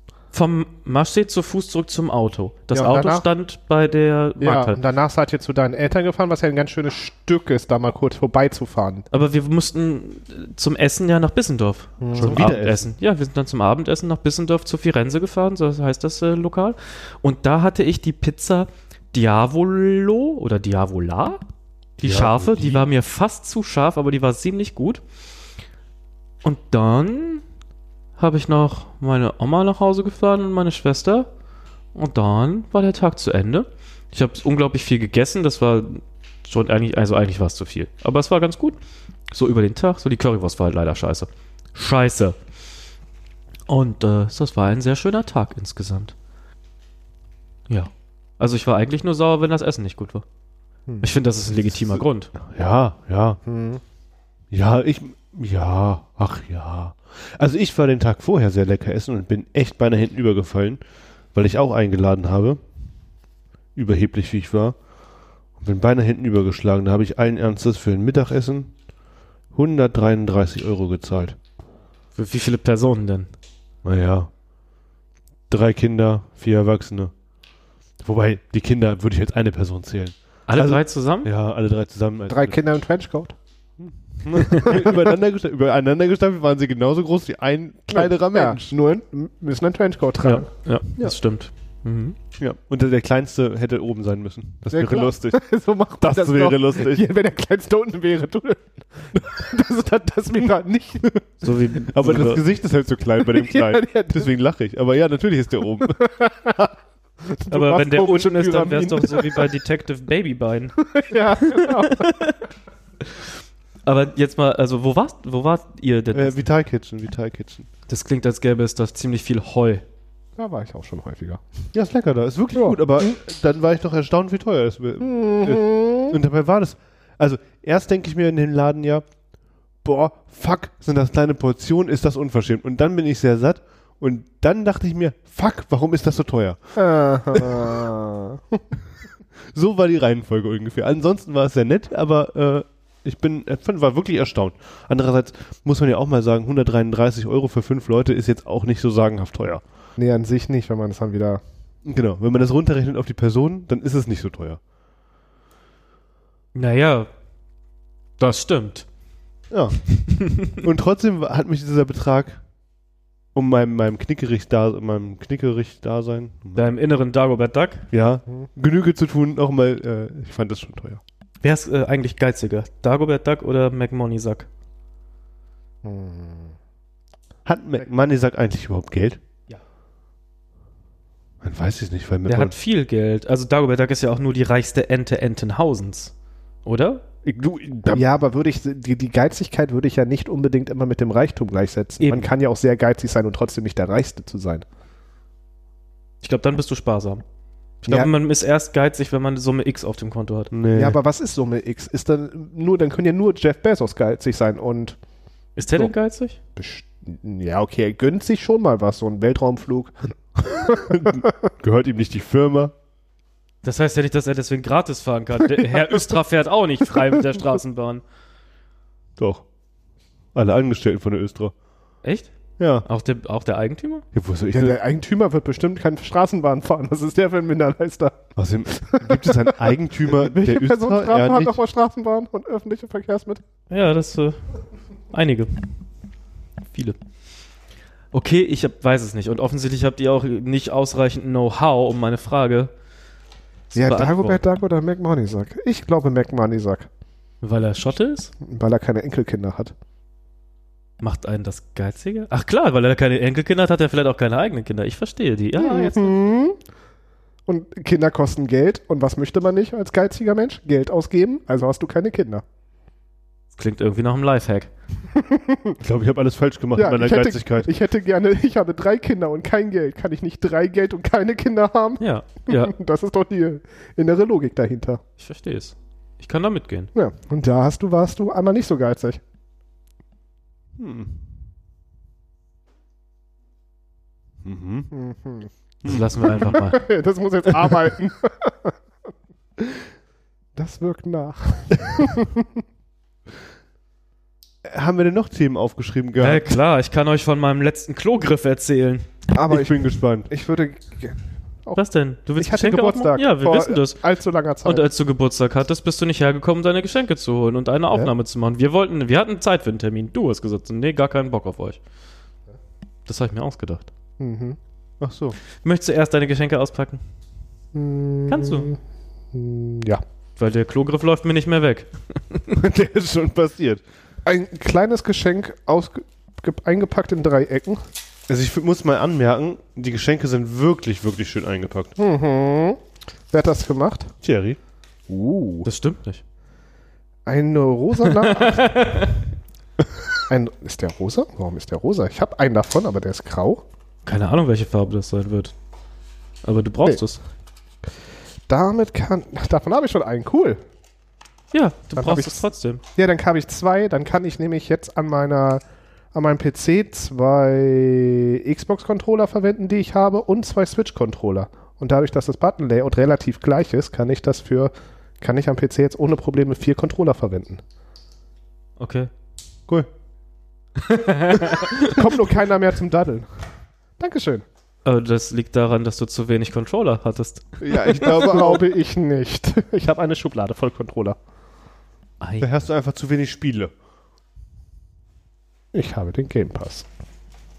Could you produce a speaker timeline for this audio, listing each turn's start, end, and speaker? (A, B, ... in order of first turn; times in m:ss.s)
0:00.3-0:04.8 A
0:02.7-0:03.2 B
0:04.4-0:09.0 B
0:09.1-0:21.4 A
0:12.0-0:12.4 B
0:12.1-0:12.9 C
0:22.0-0:25.0 A
0:22.0-0:22.8 C
0:26.4-0:27.4 A
0:28.2-0:31.3 A
0:31.9-0:38.8 A
0:39.3-0:42.4 A
0:43.7-0:46.1 A
0:47.7-0:50.2 A
0:51.0-0:52.3 A
0:52.4-0:53.4 C
0:53.4-0:53.8 B
0:54.5-1:00.8 C
1:01.3-1:02.6 C
1:03.8-1:04.8 C
1:05.6-1:08.7 C
1:09.5-1:11.4 C
1:12.1-1:13.3 A
1:13.8-1:14.3 C
1:15.5-1:17.1 C
1:18.0-1:22.6 C
1:20.5-1:21.3 A
1:22.3-1:23.4 B
1:23.8-1:28.7 C
1:24.4-1:24.7 A
1:24.5-1:25.1 B
1:27.9-1:30.5 B
1:30.2-1:32.2 A
1:32.4-1:35.4 C
1:34.7-1:41.1 B
1:36.0-1:37.0 C
1:41.4-1:42.4 A
1:41.9-1:46.1 C
1:43.2-1:44.3 B
1:46.0-1:46.7 B
1:47.2-1:49.5 B
1:47.5-1:50.8 A
1:50.9-1:52.3 B
1:51.4-1:52.4 A
1:53.8-1:56.4 A
1:56.1-1:57.6 C
1:57.9-1:59.8 A
2:00.4-2:01.4 B
2:01.7-2:09.0 C
2:02.5-2:03.1 B
2:05.0-2:06.2 B
2:09.8-2:16.6 C
2:16.8-2:18.6 B
2:17.3-2:17.8 C
2:19.5-2:29.6 C
2:30.0-2:31.4 B
2:31.8-2:34.6 C
2:36.5-2:37.1 A
2:38.2-2:38.8 A
2:39.5-2:42.4 C
2:40.0-2:40.6 A
2:43.3-2:46.6 C
2:46.6-2:47.9 A
2:47.9-2:51.0 C
2:51.4-2:54.5 A
2:55.8-2:56.5 B
2:57.4-2:59.2 C
3:01.4-3:02.5 C
3:02.3-3:06.1 A
3:06.6-3:07.0 A
3:07.2-3:08.0 C
3:07.9-3:14.6 B
3:16.2-3:17.2 A
3:17.8-3:20.5 A
3:20.5-3:21.0 C
3:20.7-3:25.0 B
3:25.6-3:26.4 A
3:26.6-3:31.3 B
3:30.7-3:32.7 C
3:33.6-3:38.0 A
3:39.2-3:39.4 C
3:40.3-3:41.5 C
3:42.0-3:42.3 A
3:42.6-3:42.8 C
3:42.8-3:44.0 A
3:44.1-3:44.8 C
3:44.5-3:48.2 B
3:48.4-3:51.6 C
3:48.7-3:53.4 B
3:53.7-3:54.4 A
3:55.1-3:55.7 A
3:58.1-4:02.7 A
4:03.7-4:04.4 A
4:03.7-4:06.9 B
4:07.4-4:08.3 A
4:08.4-4:09.7 B
4:11.0-4:16.2 A
4:15.6-4:16.6 B
4:17.5-4:22.4 B
4:23.5-4:24.7 A
4:25.1-4:25.8 B
4:25.8-4:27.7 C
4:26.8-4:35.0 B
4:32.0-4:32.7 A
4:35.2-4:36.9 A
4:36.9-4:39.2 B
4:40.8-4:41.2 C
4:44.4-4:44.9 C
4:44.9-4:45.5 B
4:45.8-4:46.8 A
4:46.2-4:48.8 B
4:49.6-4:49.8 B
4:50.5-4:52.6 B
4:54.6-4:56.5 C
4:56.2-4:59.0 A
4:59.3-5:01.8 B
4:59.4-5:00.3 C
5:01.8-5:04.0 A
5:02.4-5:04.8 B
5:04.6-5:11.8 A
5:13.0-5:13.9 A
5:14.2-5:14.6 B
5:15.0-5:15.4 C
5:15.5-5:17.0 A
5:17.7-5:18.8 B
5:18.3-5:18.7 A
5:19.3-5:20.0 B
5:20.4-5:22.6 A
5:22.5-5:23.8 C
5:24.2-5:27.8 B
5:28.3-5:31.9 C
5:32.0-5:32.8 B
5:33.3-5:34.1 B
5:34.2-5:34.6 C
5:35.1-5:35.7 B
5:35.6-5:36.2 A
5:37.2-5:39.1 B
5:38.1-5:39.2 A
5:40.3-5:43.6 B
5:44.0-5:45.5 A
5:46.4-5:47.2 A
5:48.5-5:50.6 B
5:51.5-5:52.8 A
5:52.0-5:52.4 B
5:52.9-6:07.6 B
6:08.8-6:09.1 A
6:10.8-6:12.1 A
6:11.5-6:13.3 B
6:14.0-6:14.4 B
6:14.8-6:18.5 A
6:17.6-6:18.7 C
6:17.9-6:21.2 B
6:22.2-6:22.5 A
6:22.4-6:23.7 C
6:25.7-6:26.9 B